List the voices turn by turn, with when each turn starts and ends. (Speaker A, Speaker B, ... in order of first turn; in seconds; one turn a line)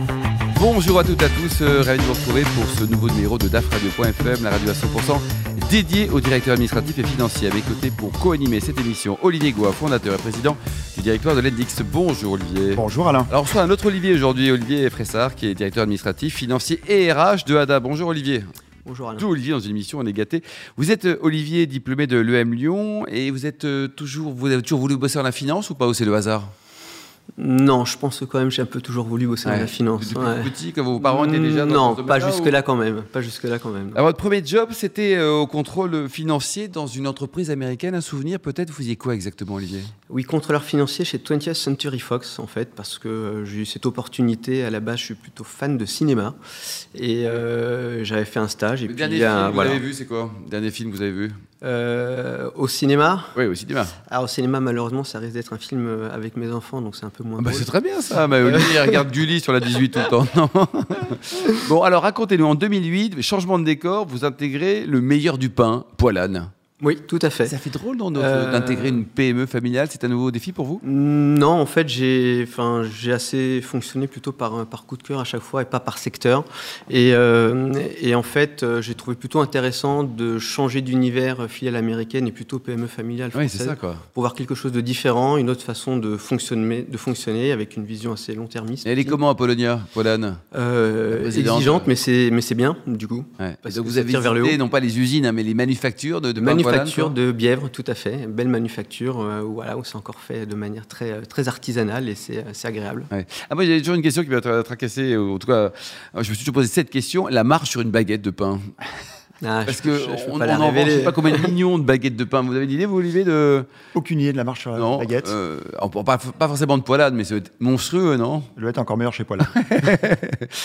Speaker A: 0.6-18.5
Speaker B: 12.8-13.3
Speaker C: 18.9-19.3
Speaker A: 19.2-26.5
Speaker C: 27.4-34.0
Speaker A: 29.4-32.5
Speaker A: 34.0-39.9
Speaker C: 40.1-46.4
Speaker C: 46.9-49.8
Speaker A: 48.9-51.4
Speaker C: 51.6-53.4
Speaker A: 53.4-54.0
Speaker C: 54.1-57.7
Speaker A: 57.4-66.5
Speaker C: 58.4-59.0
Speaker C: 59.8-60.1
Speaker C: 66.8-67.5
Speaker A: 67.5-70.8
Speaker C: 68.1-69.0
Speaker C: 70.8-89.2
Speaker A: 83.3-84.0
Speaker A: 88.8-90.4
Speaker C: 90.5-94.6
Speaker A: 91.1-91.9
Speaker A: 93.4-97.1
Speaker C: 96.4-103.1
Speaker A: 103.1-108.7
Speaker C: 109.4-111.5
Speaker A: 109.7-113.7
Speaker B: 113.9-115.3
Speaker A: 114.8-118.5
Speaker B: 118.6-119.5
Speaker A: 119.4-120.6